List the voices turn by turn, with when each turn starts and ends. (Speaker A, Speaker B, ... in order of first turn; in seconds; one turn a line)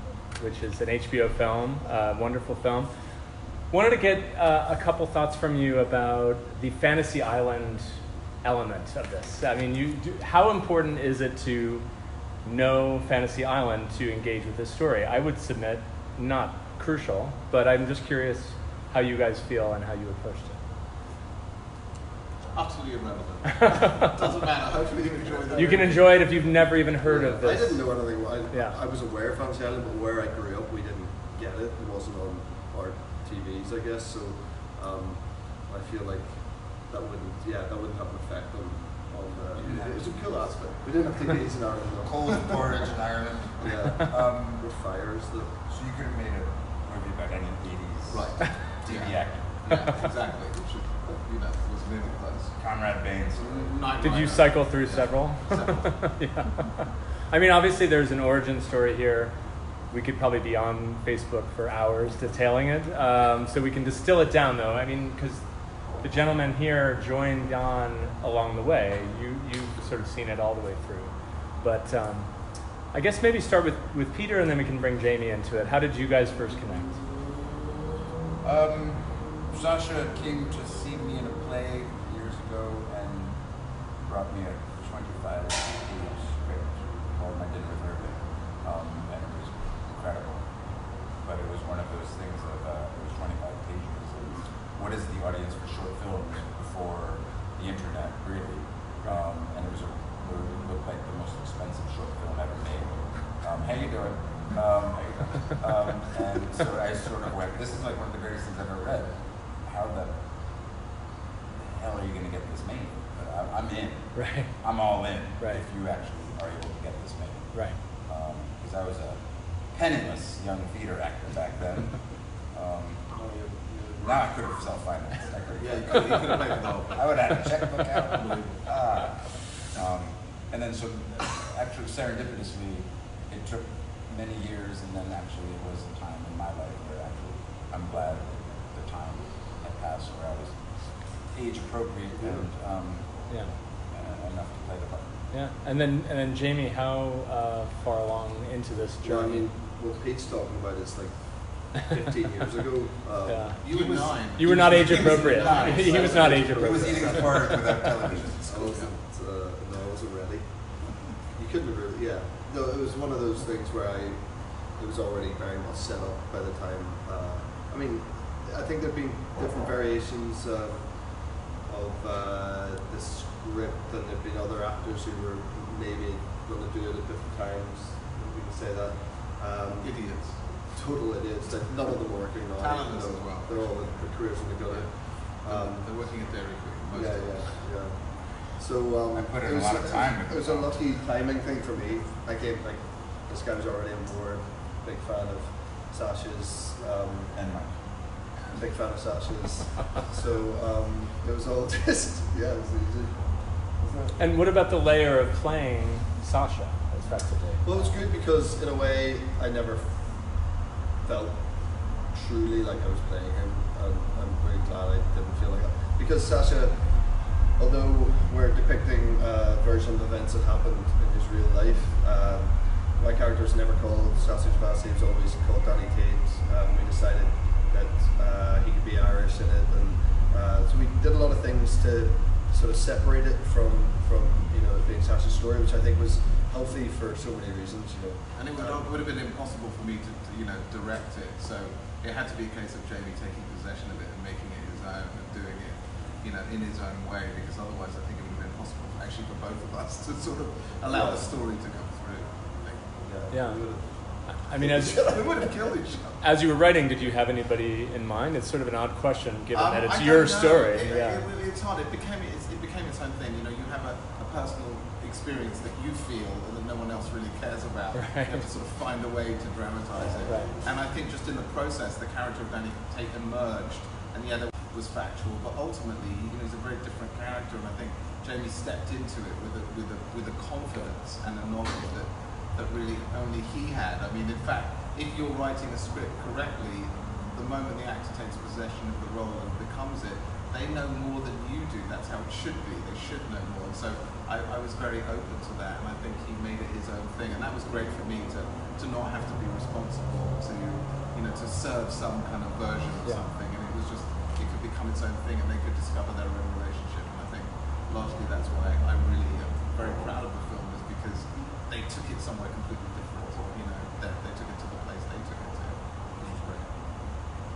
Speaker A: 0.4-2.9
Speaker A: 3.7-11.9
Speaker A: 12.4-20.6
Speaker B: 22.5-26.3
Speaker A: 23.6-23.9
Speaker C: 25.2-26.1
Speaker A: 25.5-28.8
Speaker C: 27.0-42.8
Speaker B: 39.6-40.6
Speaker D: 39.6-40.4
Speaker D: 42.0-44.9
Speaker C: 43.6-45.5
Speaker D: 45.6-49.7
Speaker B: 48.1-52.6
Speaker D: 52.6-53.7
Speaker B: 53.4-56.0
Speaker A: 54.0-77.0
Speaker D: 78.4-110.2
Speaker D: 111.5-123.3
Speaker A: 114.1-114.8
Speaker A: 115.4-115.6
Speaker A: 117.5-117.8
Speaker C: 123.1-124.3
Speaker D: 124.0-145.2
Speaker B: 125.6-127.4
Speaker B: 128.1-129.0
Speaker C: 142.1-142.5
Speaker A: 143.3-143.6
Speaker A: 145.3-149.5
Speaker C: 149.0-157.8
Speaker A: 153.2-157.7
Speaker B: 153.6-157.0
Speaker D: 154.8-158.8
Speaker C: 158.5-186.2
Speaker B: 158.6-158.9
Speaker B: 179.8-180.5
Speaker B: 182.6-187.7
Speaker C: 186.9-204.2
Speaker D: 189.1-190.8
Speaker D: 197.3-197.8
Speaker A: 204.2-208.1
Speaker C: 207.6-238.9
Speaker B: 238.3-252.9
Speaker C: 250.9-251.3
Speaker C: 253.0-255.9
Speaker A: 253.3-255.4
Speaker B: 254.9-256.2
Speaker A: 256.2-261.2
Speaker B: 259.5-316.8
Speaker A: 267.9-268.5
Speaker A: 270.3-270.5